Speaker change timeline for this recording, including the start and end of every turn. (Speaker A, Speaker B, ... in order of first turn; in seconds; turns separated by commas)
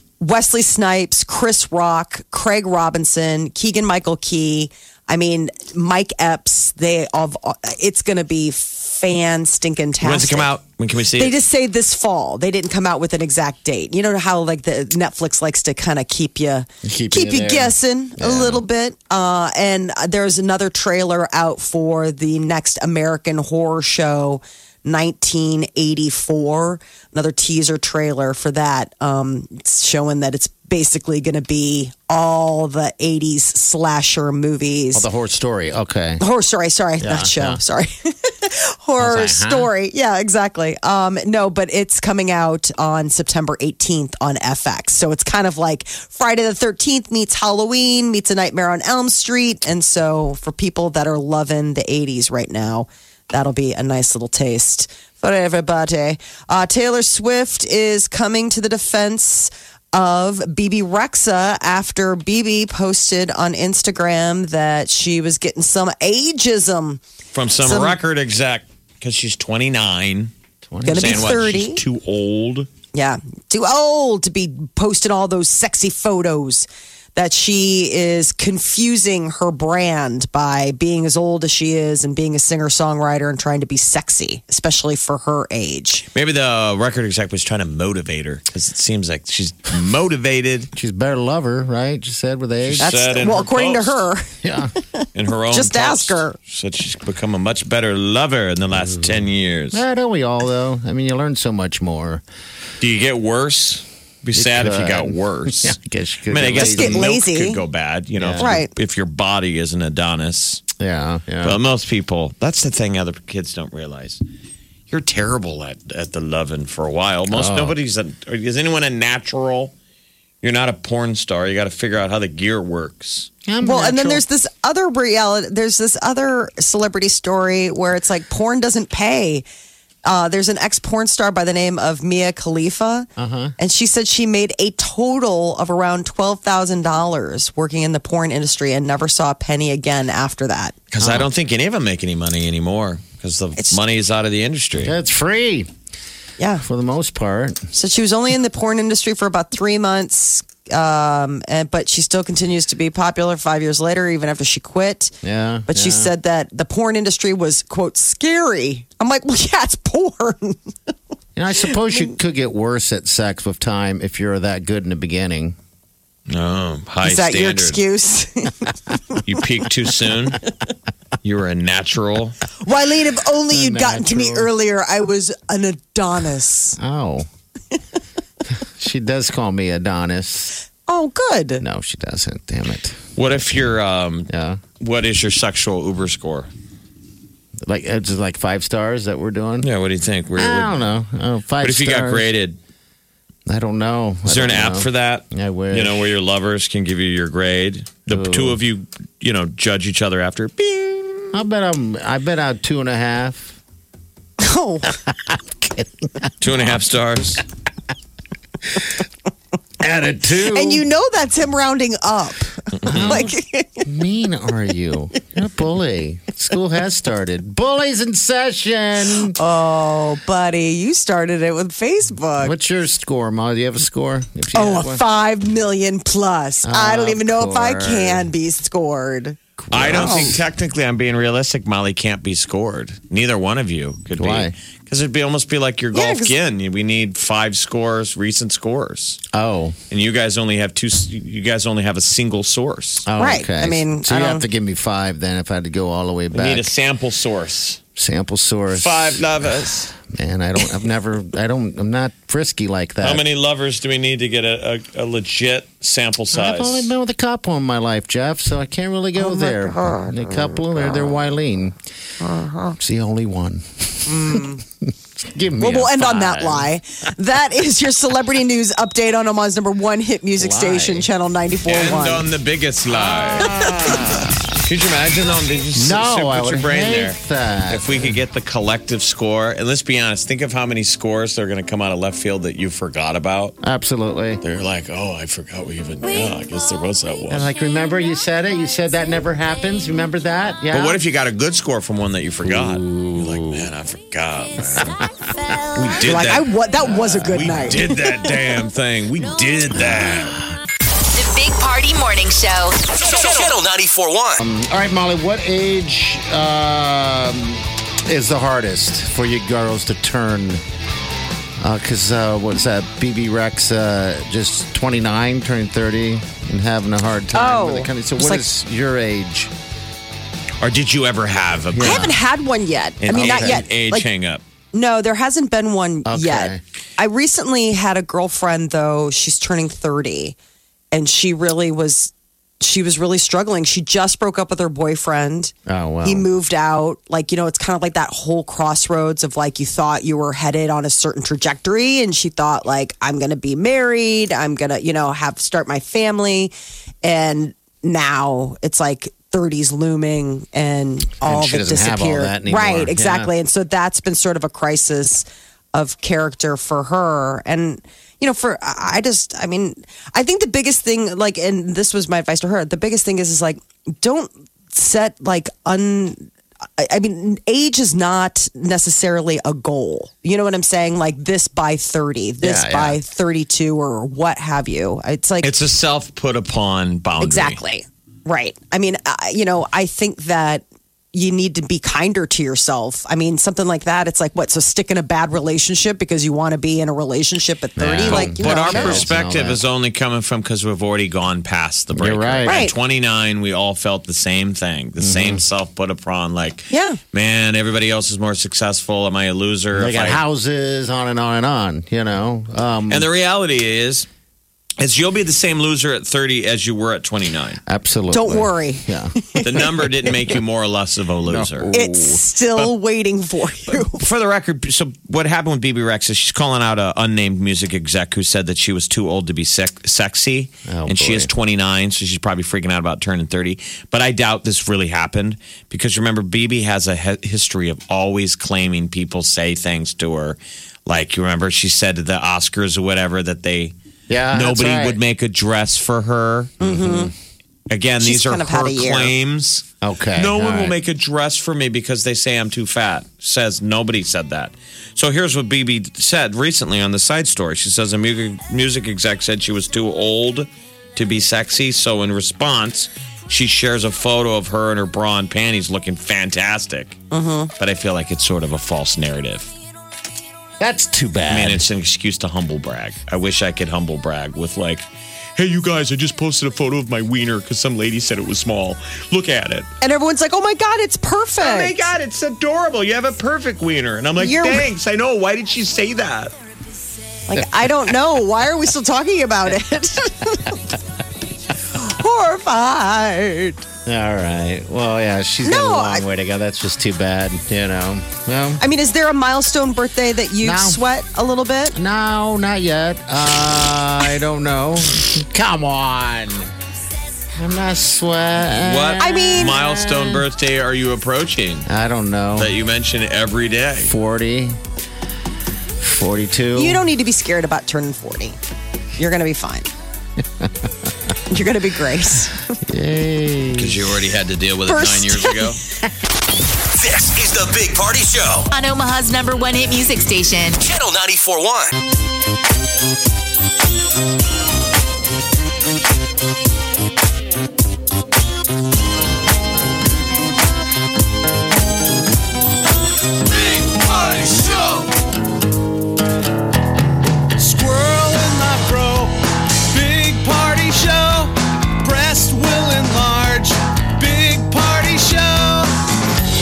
Speaker A: 0.2-10.5, Speaker B: 10.0-11.3, Speaker A: 11.2-35.1, Speaker C: 16.8-18.6, Speaker C: 34.9-36.2, Speaker A: 36.2-67.0, Speaker C: 37.0-37.6, Speaker C: 39.0-39.7, Speaker B: 67.3-70.3, Speaker A: 67.6-68.0, Speaker C: 70.7-71.4, Speaker A: 70.8-71.8, Speaker B: 70.9-72.7, Speaker A: 72.9-86.1, Speaker B: 86.2-90.7, Speaker C: 90.7-92.9, Speaker B: 92.6-94.0, Speaker A: 92.8-94.3, Speaker C: 94.4-94.7, Speaker A: 95.0-96.4, Speaker B: 95.1-99.8, Speaker C: 99.7-102.2, Speaker B: 102.8-105.8, Speaker C: 104.3-107.1, Speaker B: 106.3-110.7, Speaker A: 106.5-107.6, Speaker C: 108.2-108.5, Speaker A: 108.4-108.7, Speaker C: 110.8-111.6, Speaker B: 111.4-114.2, Speaker B: 114.9-119.7, Speaker C: 117.3-117.8, Speaker B: 120.4-123.3, Speaker C: 123.5-124.2, Speaker A: 123.6-129.4, Speaker A: 130.1-140.8, Speaker C: 133.2-133.5, Speaker B: 140.9-144.9, Speaker C: 141.0-141.3, Speaker C: 144.8-145.7, Speaker A: 146.4-146.6, Speaker C: 146.6-147.7, Speaker A: 147.7-155.1, Speaker C: 155.2-156.1, Speaker A: 155.7-160.7, Speaker C: 161.4-165.6, Speaker B: 166.3-167.8, Speaker A: 167.0-169.2, Speaker B: 169.2-170.4, Speaker B: 171.2-172.4, Speaker A: 172.7-176.8, Speaker C: 173.5-174.5, Speaker C: 176.8-177.3, Speaker C: 178.6-180.6, Speaker A: 180.9-181.6, Speaker C: 181.6-183.0, Speaker B: 183.2-184.3, Speaker C: 184.3-184.6, Speaker B: 184.8-186.5, Speaker C: 187.6-189.7, Speaker B: 189.6-190.8, Speaker C: 190.4-192.3, Speaker B: 191.6-192.6, Speaker C: 193.5-196.1, Speaker B: 194.3-201.3, Speaker C: 198.1-198.6, Speaker C: 201.3-203.6, Speaker A: 204.4-204.9, Speaker C: 205.1-206.3, Speaker B: 206.4-207.4, Speaker C: 209.8-210.9, Speaker A: 210.5-213.9, Speaker B: 212.8-213.2, Speaker C: 212.9-213.3, Speaker C: 213.9-219.4, Speaker A: 219.3-222.6, Speaker C: 222.4-225.0, Speaker A: 224.5-230.3, Speaker C: 226.6-228.3, Speaker C: 229.6-230.4, Speaker B: 229.7-239.2, Speaker C: 234.2-234.5, Speaker A: 235.9-236.3, Speaker C: 239.3-239.8, Speaker B: 239.9-243.1, Speaker C: 243.1-246.7, Speaker A: 243.2-244.5, Speaker B: 246.3-247.8, Speaker C: 248.0-253.2, Speaker B: 248.7-249.9, Speaker B: 253.0-256.9, Speaker C: 256.3-261.8, Speaker A: 259.3-260.1, Speaker A: 262.3-262.7, Speaker C: 262.7-266.7, Speaker A: 264.1-264.6, Speaker A: 265.6-272.2, Speaker C: 270.4-271.1, Speaker B: 271.7-273.6, Speaker C: 273.4-274.3, Speaker B: 274.6-277.2, Speaker C: 275.8-278.2, Speaker B: 277.7-283.6, Speaker C: 283.6-284.4, Speaker B: 284.4-287.5, Speaker C: 287.3-291.0, Speaker B: 290.7-295.0, Speaker C: 292.4-293.7, Speaker C: 294.8-296.4, Speaker B: 295.8-300.4, Speaker A: 296.0-297.8, Speaker C: 297.3-298.3, Speaker D: 301.1-302.8, Speaker E: 303.0-304.4, Speaker C: 304.4-310.6, Speaker C: 311.6-319.5, Speaker A: 317.3-318.5, Speaker B: 320.6-322.1, Speaker C: 321.7-322.2, Speaker A: 321.8-324.1, Speaker B: 323.0-324.4, Speaker A: 324.7-330.4, Speaker C: 326.1-326.6, Speaker A: 330.9-346.5, Speaker C: 335.7-336.3, Speaker A: 347.0-375.5, Speaker C: 351.2-353.3, Speaker C: 372.4-373.0, Speaker B: 375.4-377.6, Speaker A: 377.2-389.1, Speaker C: 387.8-389.6, Speaker B: 388.0-400.2, Speaker C: 391.9-392.7, Speaker A: 392.4-392.7, Speaker C: 395.0-395.4, Speaker A: 396.7-397.0, Speaker C: 399.7-403.1, Speaker B: 402.9-404.1, Speaker B: 404.8-407.6, Speaker C: 407.7-409.6, Speaker A: 408.1-410.1, Speaker B: 409.4-411.7, Speaker C: 411.3-412.2, Speaker A: 411.7-414.1, Speaker B: 413.7-433.7, Speaker C: 420.7-421.3, Speaker C: 434.1-435.0, Speaker B: 434.3-436.6, Speaker A: 436.6-437.1, Speaker C: 436.6-437.1, Speaker B: 437.7-457.0, Speaker A: 438.0-439.1, Speaker C: 439.8-440.8, Speaker A: 457.1-457.5, Speaker B: 457.6-459.5, Speaker C: 460.6-461.6, Speaker B: 461.3-464.9, Speaker B: 465.4-469.7, Speaker A: 469.8-471.8, Speaker B: 471.4-476.3, Speaker A: 474.2-474.7, Speaker A: 477.3-480.6, Speaker A: 481.8-483.6, Speaker C: 483.9-488.6, Speaker A: 485.4-486.1, Speaker A: 488.6-491.8, Speaker C: 490.4-490.8, Speaker C: 491.8-496.5, Speaker C: 497.4-500.2, Speaker B: 498.6-501.7, Speaker A: 499.0-499.6, Speaker C: 501.7-502.5, Speaker B: 502.4-503.9, Speaker C: 503.9-504.6, Speaker C: 505.8-506.8, Speaker A: 506.6-508.4, Speaker A: 509.0-509.7, Speaker C: 510.4-510.7, Speaker A: 511.3-512.6, Speaker C: 512.7-513.9, Speaker B: 513.5-515.6, Speaker A: 514.7-515.5, Speaker E: 516.8-518.5, Speaker D: 518.5-520.6, Speaker E: 520.6-521.8, Speaker F: 533.3-534.9, Speaker F: 537.4-545.7